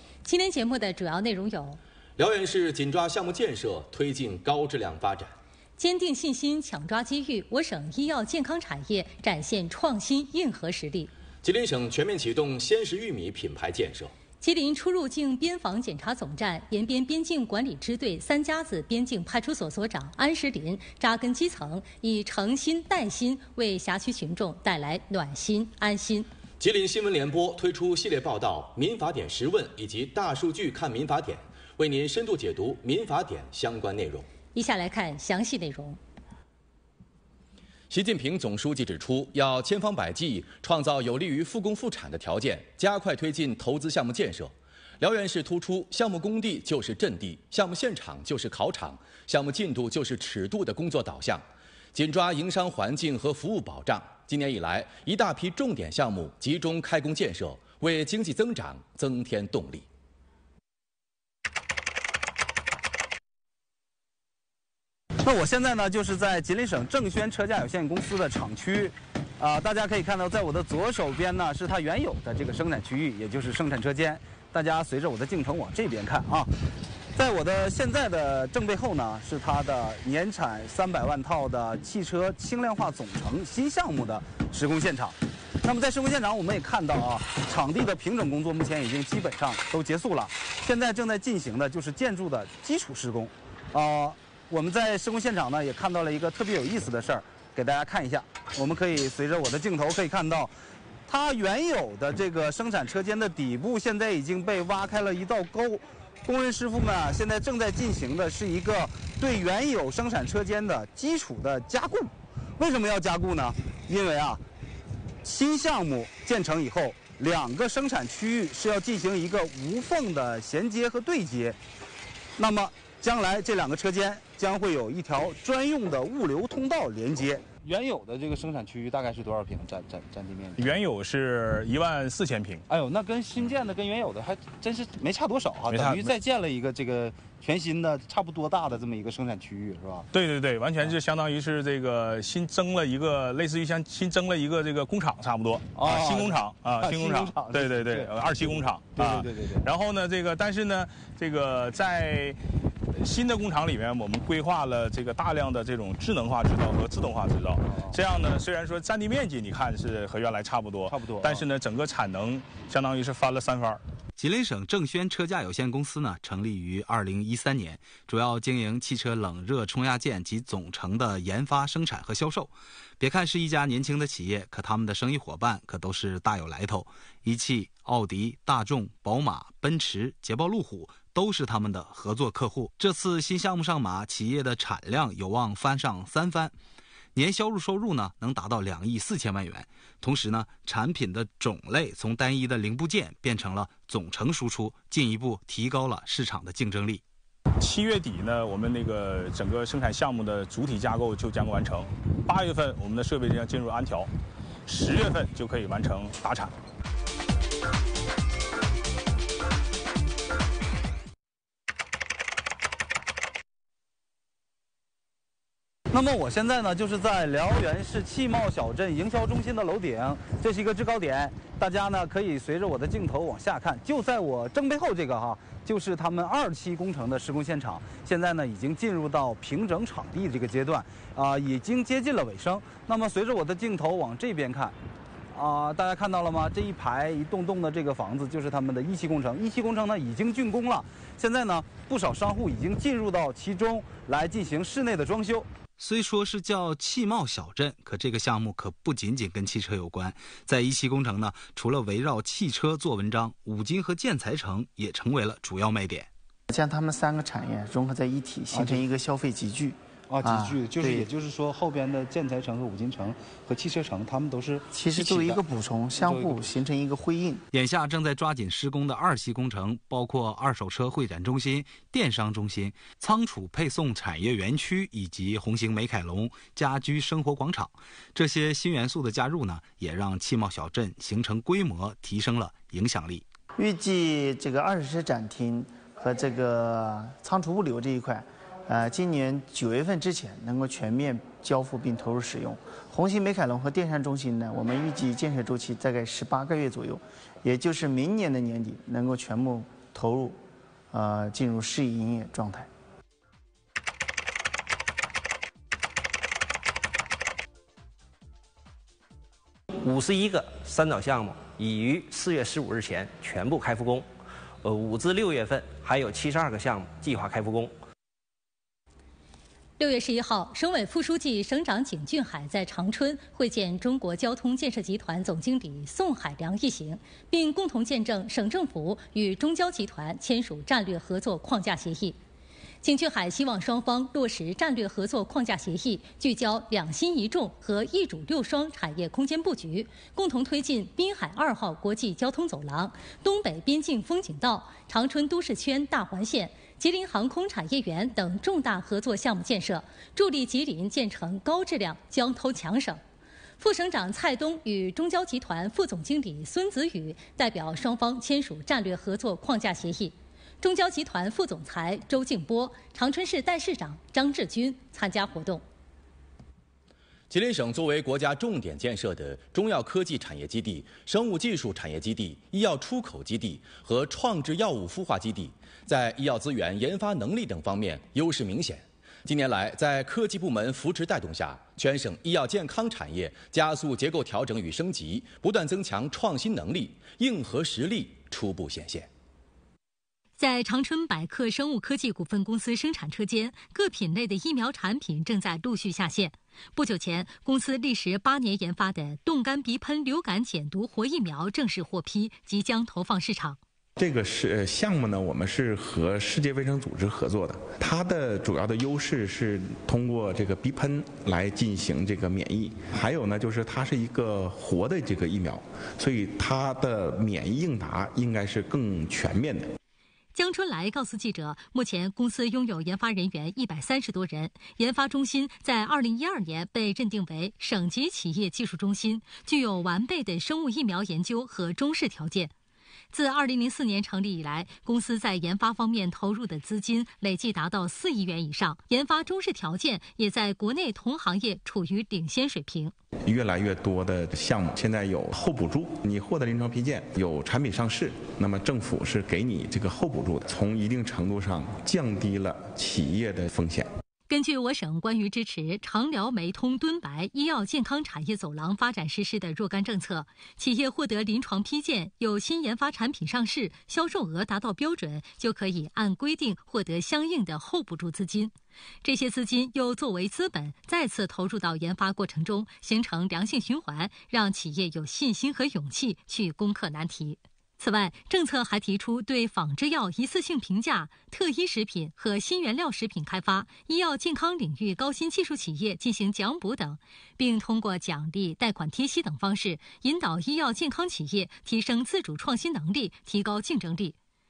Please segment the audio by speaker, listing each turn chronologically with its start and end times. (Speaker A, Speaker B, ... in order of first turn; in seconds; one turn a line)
Speaker A: 0.2-1.8
Speaker B: 2.2-5.3
Speaker A: 5.8-11.1
Speaker B: 11.4-14.1
Speaker A: 14.4-26.3
Speaker B: 26.6-34.3
Speaker A: 34.5-36.0
Speaker B: 37.9-59.9
Speaker C: 65.2-76.5
Speaker C: 77.1-100.5
Speaker C: 101.1-114.4
Speaker C: 115.2-121.6
Speaker C: 122.4-130.6
Speaker D: 130.6-132.6
Speaker C: 132.7-140.1
Speaker D: 135.7-136.2
Speaker D: 140.1-152.4
Speaker C: 145.8-149.6
Speaker D: 153.0-163.8
Speaker C: 160.9-161.4
Speaker E: 164.2-186.5
Speaker E: 187.1-197.0
Speaker D: 197.6-204.1
Speaker D: 204.7-206.5
Speaker C: 215.9-234.7
Speaker C: 235.3-245.5
Speaker E: 245.8-256.1
Speaker F: 256.5-261.1
Speaker C: 258.5-258.8
Speaker C: 260.1-264.6
Speaker F: 264.7-267.4
Speaker E: 267.5-283.2
Speaker F: 283.6-300.4
Speaker F: 300.9-302.7
Speaker G: 309.8-314.1
Speaker G: 314.6-317.7
Speaker A: 319.8-332.1
Speaker A: 332.8-353.0
Speaker A: 353.6-365.6
Speaker B: 367.3-389.1
Speaker A: 390.4-403.6
Speaker H: 404.0-419.7
Speaker A: 420.3-432.5
Speaker A: 433.1-442.9
Speaker H: 443.2-453.9
Speaker A: 454.3-468.5
Speaker A: 469.0-494.1